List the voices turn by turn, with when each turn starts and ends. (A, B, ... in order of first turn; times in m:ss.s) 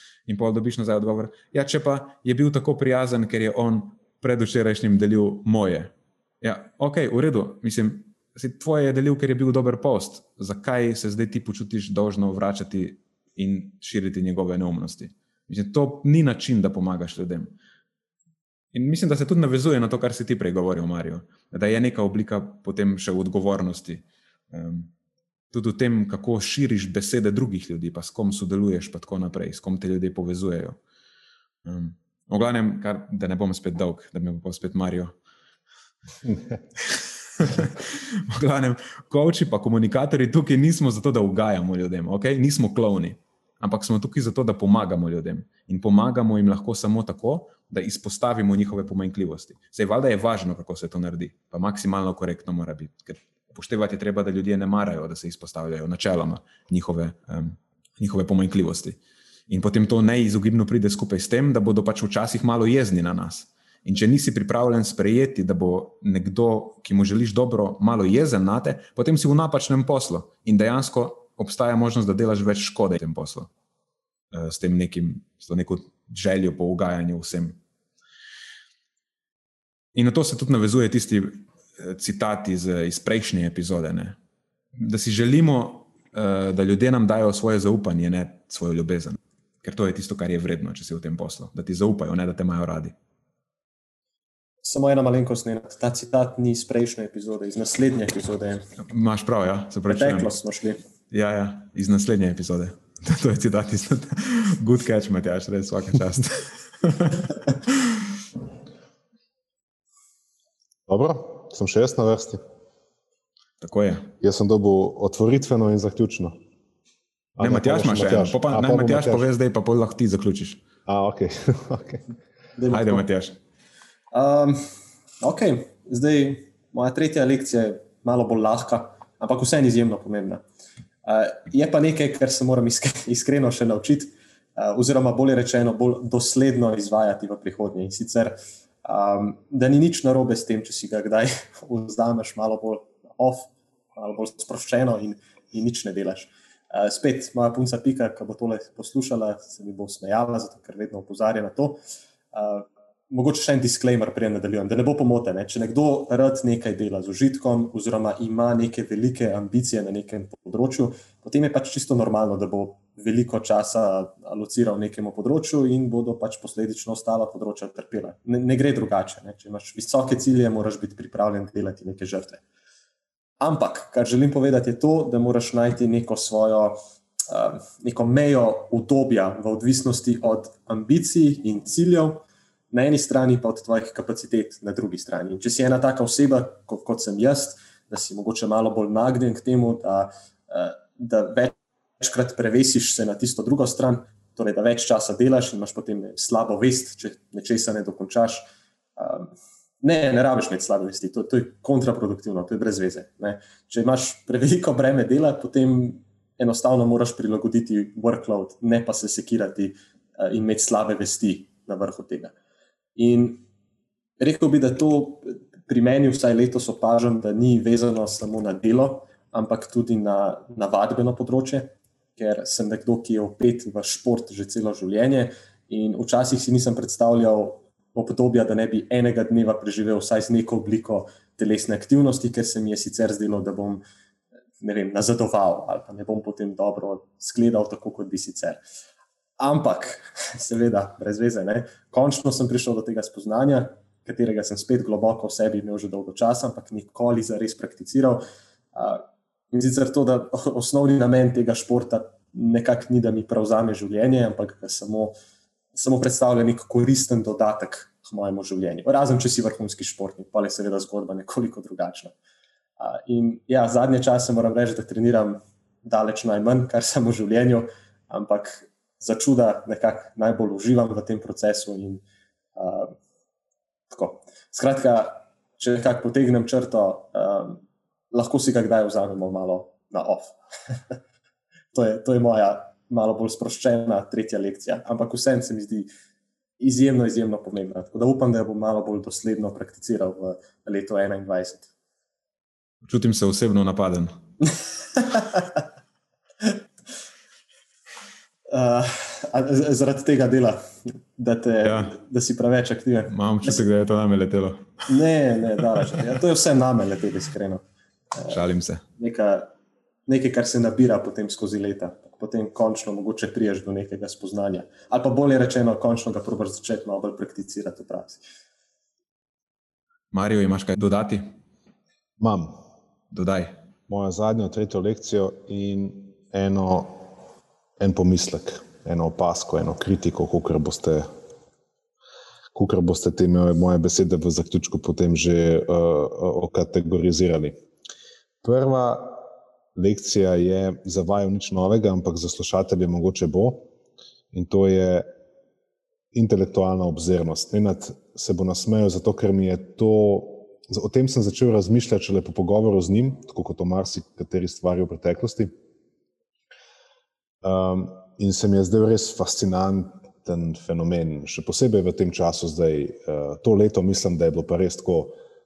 0:00.3-0:17.6 A
0:18.7-0:24.9 A
0:25.5-0:30.8 A
0:31.6-0:35.1 A
0:36.8-1:13.5 A
1:14.3-1:17.6 A
1:20.0-1:24.2 A
1:24.8-1:32.9 A
1:34.6-1:38.7 B
1:38.8-1:40.3 A
1:39.9-1:40.8 B
1:41.1-1:48.0 A
1:50.9-1:52.4 C
1:53.6-1:54.1 A
1:54.2-1:56.4 C
1:57.4-1:59.3 C
1:57.4-2:00.6 A
2:00.9-2:02.0 C
2:02.6-2:03.0 B
2:02.7-2:03.4 A
2:04.1-2:04.7 B
2:05.2-2:10.4 B
2:11.0-2:31.8 B
2:32.3-2:52.4 B
2:53.4-2:56.8 B
2:57.3-3:19.3 B
3:19.8-3:32.3 B
3:33.0-3:33.4 B
3:34.2-3:53.8 B
3:54.6-3:58.6 B
3:59.4-4:08.2 B
4:08.8-4:15.2 B
4:15.7-4:22.1 B
4:22.8-4:32.0 B
4:32.6-4:32.9 B
4:33.9-4:41.0 B
4:41.7-4:45.9 B
4:46.6-4:51.7 B
4:52.8-4:54.2 A
4:55.0-4:55.5 B
4:58.5-5:03.7 B
5:01.6-5:02.0 A
5:03.1-5:04.8 A
5:04.9-5:07.6 B
5:08.2-5:08.8 A
5:09.0-5:09.5 B
5:10.1-5:18.2 B
5:20.1-5:21.4 A
5:22.2-5:22.6 C
5:23.1-5:23.6 A
5:23.9-5:27.1 C
5:27.8-5:31.1 C
5:32.5-5:37.6 C
5:38.4-5:43.7 C
5:44.3-5:45.1 C
5:46.1-5:55.5 C
5:57.4-6:05.2 C